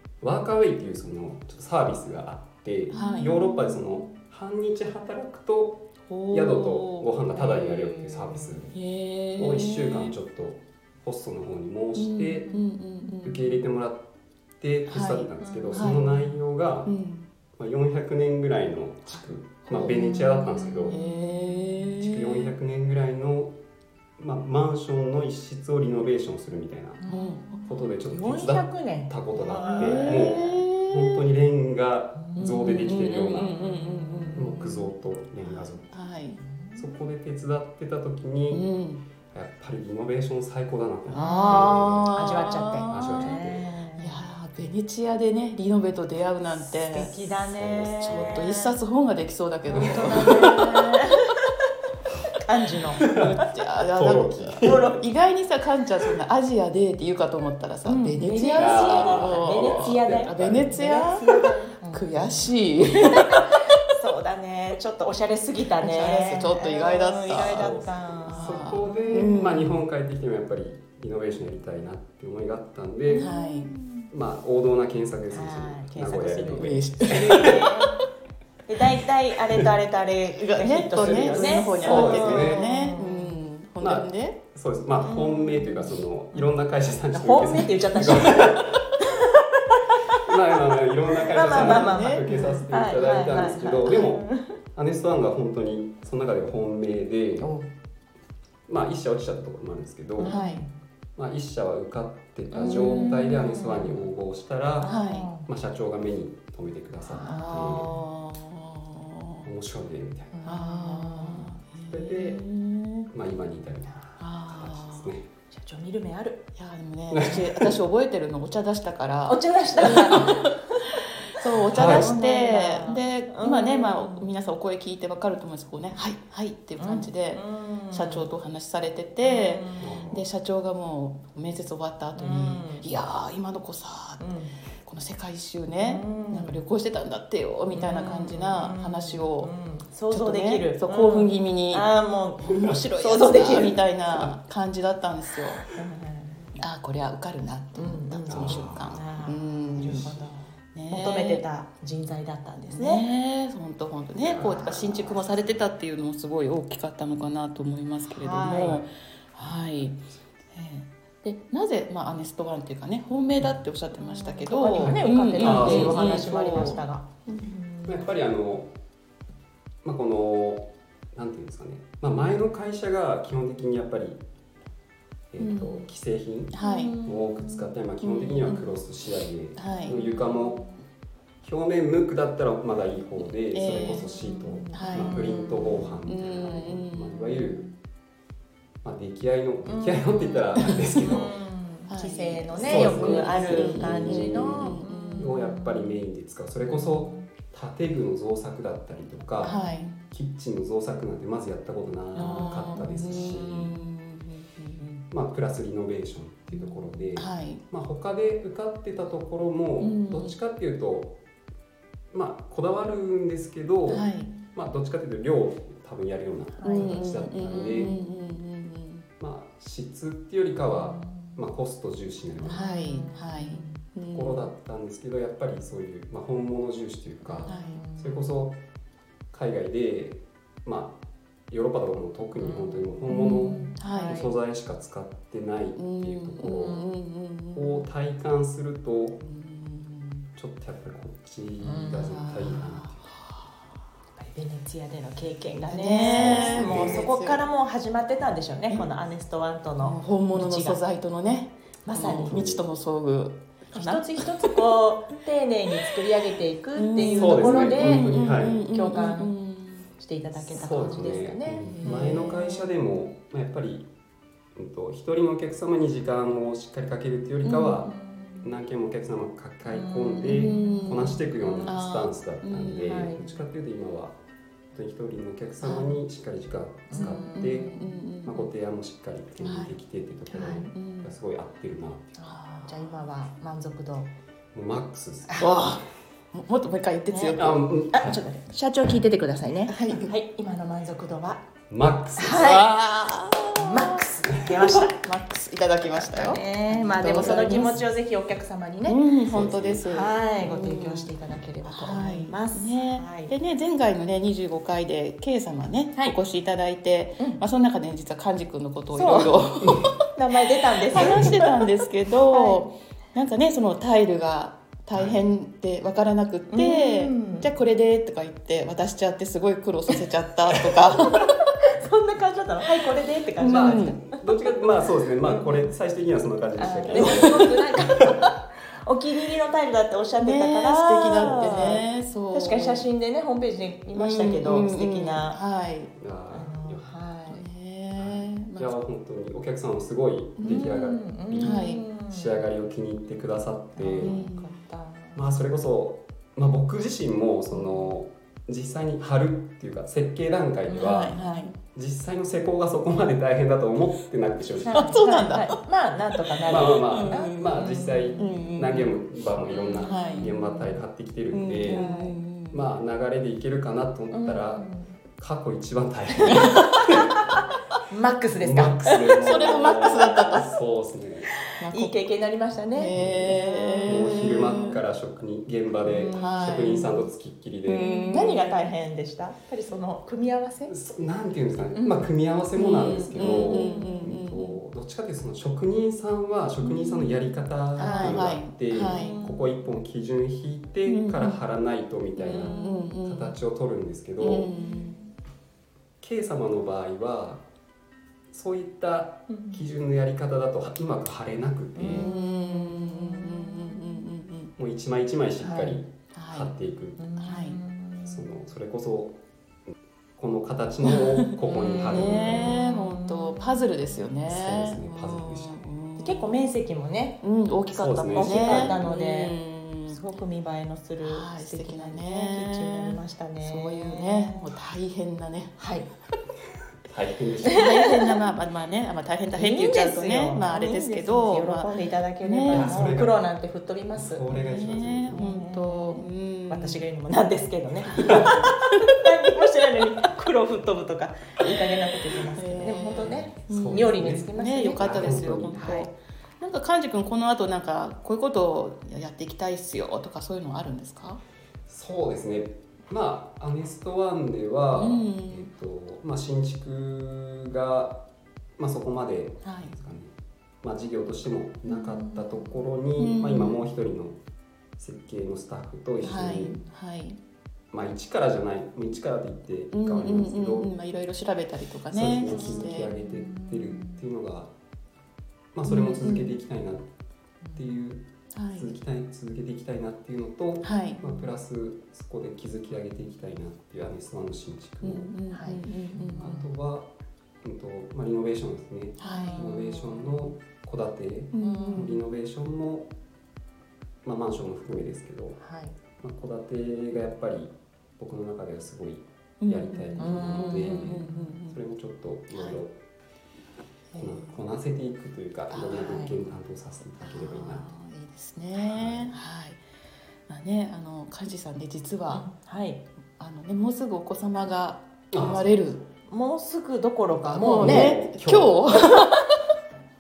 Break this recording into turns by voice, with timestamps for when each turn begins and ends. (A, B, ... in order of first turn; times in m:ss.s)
0:00.2-0:08.8 A
0:02.9-0:03.3 B
0:02.9-0:03.8 C
0:06.1-0:07.8 C
0:08.7-0:10.2 C
0:09.4-0:12.5 A
0:12.0-0:13.6 C
0:13.2-0:14.1 A
0:14.6-0:16.9 A
0:14.9-0:16.1 C
0:15.4-0:16.2 B
0:16.9-0:17.3 C
0:17.6-0:21.0 A
0:19.7-0:22.5 C
0:20.9-0:21.9 B
0:22.0-0:23.6 A
0:24.2-0:27.0 A
0:27.0-0:30.6 B
0:27.1-0:27.7 C
0:27.7-0:33.5 A
0:29.7-0:31.2 C
0:32.2-0:34.9 B
0:32.4-0:34.6 C
0:34.3-0:35.9 A
0:35.4-0:35.8 B
0:35.9-0:36.4 C
0:36.4-0:37.0 B
0:36.8-0:38.6 A
0:38.5-0:39.0 C
0:39.3-0:42.1 A
0:41.1-0:43.4 C
0:41.2-0:44.2 B
0:42.9-0:43.7 A
0:44.0-0:47.2 C
0:46.5-0:48.8 B
0:47.4-0:48.4 A
0:48.0-0:51.1 C
0:49.7-0:51.0 B
0:49.7-0:50.6 A
0:52.4-0:53.1 B
0:53.0-0:53.3 A
0:53.0-1:03.6 C
0:53.9-0:55.0 A
0:54.6-0:55.1 B
0:57.8-1:02.5 B
0:58.6-1:00.8 A
1:03.2-1:09.4 B
1:05.8-1:07.6 C
1:07.4-1:13.3 A
1:08.3-1:09.7 C
1:13.1-1:14.0 B
1:13.2-1:13.7 C
1:14.1-1:17.7 A
1:15.3-1:18.0 B
1:16.6-1:17.8 C
1:18.7-1:23.4 B
1:20.4-1:24.4 C
1:21.0-1:22.6 A
1:23.8-1:28.9 A
1:25.0-1:26.5 B
1:27.1-1:29.3 B
1:29.9-1:30.2 B
1:30.2-1:34.2 A
1:31.2-1:34.6 B
1:31.4-1:32.3 C
1:34.8-1:37.5 A
1:37.4-1:37.7 B
1:38.7-1:40.4 A
1:40.2-1:40.8 B
1:40.2-1:40.6 C
1:41.2-1:44.9 A
1:42.5-1:44.1 B
1:42.6-1:43.4 C
1:44.8-1:45.5 B
1:44.8-1:45.3 C
1:45.4-1:47.9 A
1:47.0-1:48.0 B
1:47.2-1:49.5 C
1:49.4-1:50.4 A
1:50.3-1:51.5 B
1:50.4-1:53.1 C
1:51.8-1:52.4 A
1:53.1-1:55.3 A
1:54.2-1:55.1 C
1:55.5-1:56.5 B
1:56.6-2:00.5 C
1:57.1-1:57.5 A
1:59.3-2:00.9 B
2:01.3-2:14.3 C
2:01.7-2:04.3 B
2:01.7-2:02.1 A
2:06.8-2:08.3 B
2:09.2-2:10.2 B
2:09.8-2:10.2 A
2:12.2-2:12.8 B
2:14.2-2:14.5 B
2:14.8-2:19.5 C
2:15.7-2:16.6 B
2:17.7-2:23.8 B
2:20.1-2:21.9 C
2:22.4-2:25.6 C
2:22.5-2:22.8 A
2:23.3-2:24.3 A
2:25.7-2:26.5 B
2:26.6-2:30.2 C
2:27.8-2:33.1 B
2:28.3-2:29.0 A
2:30.7-2:31.4 C
2:32.7-2:47.5 C
2:34.2-2:35.3 A
2:38.0-2:38.8 B
2:44.0-2:48.1 B
2:44.7-2:46.7 A
2:47.9-2:48.7 A
2:49.8-2:54.2 A
2:55.3-2:56.5 A
2:55.4-2:55.9 C
2:56.5-2:57.0 C
2:56.6-2:57.7 B
2:57.0-3:00.6 A
2:58.0-2:58.8 C
2:59.6-3:00.0 C
2:59.8-3:00.8 B
3:01.4-3:07.7 A
3:03.5-3:04.1 C
3:04.2-3:06.7 B
3:04.7-3:05.2 C
3:06.0-3:07.6 C
3:08.8-3:11.3 A
3:09.6-3:16.0 B
3:11.9-3:15.3 C
3:12.6-3:19.5 A
3:16.6-3:17.3 B
3:19.4-3:19.9 B
3:19.4-3:20.0 C
3:20.1-3:23.8 A
3:22.2-3:25.0 C
3:22.2-3:22.8 B
3:25.1-3:31.2 A
3:27.1-3:27.6 C
3:29.8-3:30.4 C
3:32.1-3:37.9 A
3:33.9-3:34.3 C
3:36.5-3:37.0 B
3:36.6-3:39.1 C
3:37.6-3:38.0 B
3:39.2-3:42.7 A
3:40.6-3:41.4 B
3:42.4-3:44.5 C
3:42.4-3:43.8 B
3:44.1-3:48.6 A
3:47.2-3:48.3 B
3:47.5-3:47.8 C
3:49.3-3:56.8 A
3:52.4-3:54.2 B
3:53.1-3:54.3 C
3:55.8-3:57.9 C
3:56.5-3:56.8 B
3:57.5-3:59.2 A
3:59.2-4:00.3 C
4:00.4-4:03.0 A
4:01.6-4:02.2 B
4:02.0-4:03.6 C
4:04.2-4:10.8 B
4:05.7-4:07.4 C
4:06.1-4:07.1 A
4:09.8-4:14.6 C
4:11.8-4:12.4 B
4:12.0-4:12.6 A
4:13.7-4:19.3 B
4:16.8-4:19.9 C
4:17.2-4:18.6 A
4:20.0-4:22.2 B
4:20.4-4:23.9 A
4:20.7-4:21.1 C
4:21.6-4:22.9 C
4:24.6-4:34.2 A
4:27.6-4:28.5 B
4:29.7-4:31.8 B
4:30.2-4:33.3 C
4:32.8-4:33.2 B
4:34.7-4:42.2 A
4:35.6-4:35.9 B
4:36.9-4:38.0 B
4:37.0-4:38.5 C
4:39.4-4:39.8 C
4:40.3-4:40.7 B
4:40.3-4:41.1 C
4:42.2-4:43.1 C
4:42.6-4:44.1 B
4:44.5-4:45.4 A
4:45.3-4:45.5 B
4:45.4-4:47.6 C
4:47.1-4:51.4 B
4:47.4-4:48.2 A
4:49.7-4:50.1 C
4:51.7-4:52.7 A
4:52.2-4:52.7 B
4:52.4-4:54.0 C
4:53.6-4:55.2 B
4:54.6-4:57.8 C
4:55.9-4:59.1 B
4:57.0-4:57.7 A
4:58.9-5:10.0 C
4:59.3-4:59.9 A
4:59.8-5:03.3 B
5:08.9-5:09.4 B
5:10.1-5:12.6 B
5:10.9-5:21.4 C
5:14.9-5:15.2 A
5:16.5-5:17.5 B
5:20.6-5:24.2 B
5:23.4-5:24.0 C
5:23.4-5:28.3 A
5:25.2-5:25.7 B
5:26.6-5:35.4 B
5:26.9-5:27.6 C
5:30.2-5:32.9 C
5:33.9-5:35.9 C
5:36.0-5:36.9 A
5:36.3-5:37.4 B
5:37.3-5:38.8 C
5:38.0-5:44.2 A
5:40.4-5:40.7 C
5:40.4-5:42.4 B
5:41.4-5:41.8 C
5:43.8-5:45.2 B
5:44.0-5:44.5 C
5:45.2-5:51.2 A
5:47.5-5:48.0 B
5:50.7-5:51.5 B
5:50.8-5:51.6 C
5:51.7-5:55.0 A
5:54.6-5:58.6 B
5:54.7-5:55.6 C
5:56.3-5:57.6 C
5:56.4-6:01.8 A
5:58.2-5:59.0 C
5:59.5-6:00.8 B
5:59.8-6:00.4 C
6:01.3-6:02.7 C
6:01.6-6:02.2 B
6:02.5-6:04.6 A
6:04.1-6:05.0 B
6:05.2-6:07.1 A
6:06.3-6:06.6 C
6:07.9-6:09.4 B
6:08.4-6:11.4 A
6:09.2-6:10.5 C
6:11.6-6:12.0 C
6:11.7-6:14.7 B
6:12.8-6:14.8 C
6:12.9-6:17.9 A
6:15.8-6:17.0 B
6:16.1-6:16.9 C
6:17.7-6:18.6 C
6:17.8-6:20.7 B
6:20.7-6:34.5 A
6:21.7-6:22.1 B
6:22.5-6:24.6 C
6:23.1-6:24.2 B
6:27.8-6:29.2 C
6:27.8-6:29.7 B
6:30.8-6:31.4 C
6:32.2-6:32.9 B
6:32.2-6:33.4 C
6:34.2-6:35.0 C
6:34.5-6:35.1 B
6:36.0-6:37.4 A
6:38.3-6:42.1 A
6:39.3-6:39.6 B
6:41.8-6:44.1 B
6:41.8-6:44.5 C
6:44.6-6:47.1 A
6:45.4-6:45.8 B
6:46.2-6:46.5 C
6:47.0-6:48.3 B
6:47.2-6:47.6 C
6:48.1-6:49.2 A
6:50.2-6:52.6 A
6:50.8-6:51.3 C
6:51.5-6:54.1 B
6:51.8-6:56.4 C
6:54.3-6:55.7 A
6:56.0-6:57.2 B
6:57.2-7:00.0 C
6:57.7-6:58.8 A
6:58.1-7:04.5 B
7:01.0-7:05.6 C
7:05.6-7:05.9 B
7:06.8-7:07.8 A
7:07.5-7:11.7 C
7:07.7-7:08.2 B
7:09.4-7:14.3 B
7:12.2-7:12.8 C
7:12.5-7:13.2 A
7:14.0-7:15.2 A
7:14.3-7:16.8 C
7:15.1-7:25.9 B
7:17.9-7:18.4 A
7:18.0-7:18.6 C
7:22.4-7:31.2 C
7:23.1-7:25.7 A
7:31.7-7:38.0 A
7:34.7-7:35.5 C
7:38.6-7:40.1 A
7:39.4-7:39.8 C
7:40.6-7:44.2 A
7:41.7-7:42.6 B
7:43.0-7:43.6 C
7:44.8-7:46.6 A
7:46.0-7:47.2 C
7:47.7-7:50.7 A
7:49.7-7:52.9 C
7:51.9-7:54.5 A
7:52.3-7:54.0 B
7:55.5-7:56.9 A
7:55.7-7:56.4 C
7:55.8-7:56.2 B
7:57.6-8:05.1 A
7:58.3-7:58.7 C
8:00.6-8:01.1 C
8:04.8-8:06.3 C
8:05.3-8:06.5 B
8:06.1-8:06.9 A
8:07.4-8:12.9 A
8:09.0-8:09.5 C
8:09.0-8:10.3 B
8:11.3-8:12.0 C
8:11.4-8:12.0 B
8:14.0-8:15.4 A
8:15.4-8:15.8 B
8:16.0-8:22.8 A
8:19.4-8:21.6 C
8:20.0-8:21.4 B
8:24.0-8:24.2 B
8:24.0-8:27.7 A
8:25.5-8:25.8 C
8:25.7-8:26.1 B
8:27.1-8:29.6 C
8:28.6-8:29.1 A
8:30.3-8:32.3 C
8:32.1-8:32.8 B
8:33.2-8:35.8 C
8:35.1-8:35.5 A
8:36.1-8:38.0 B
8:37.3-8:39.4 C
8:37.6-8:38.6 A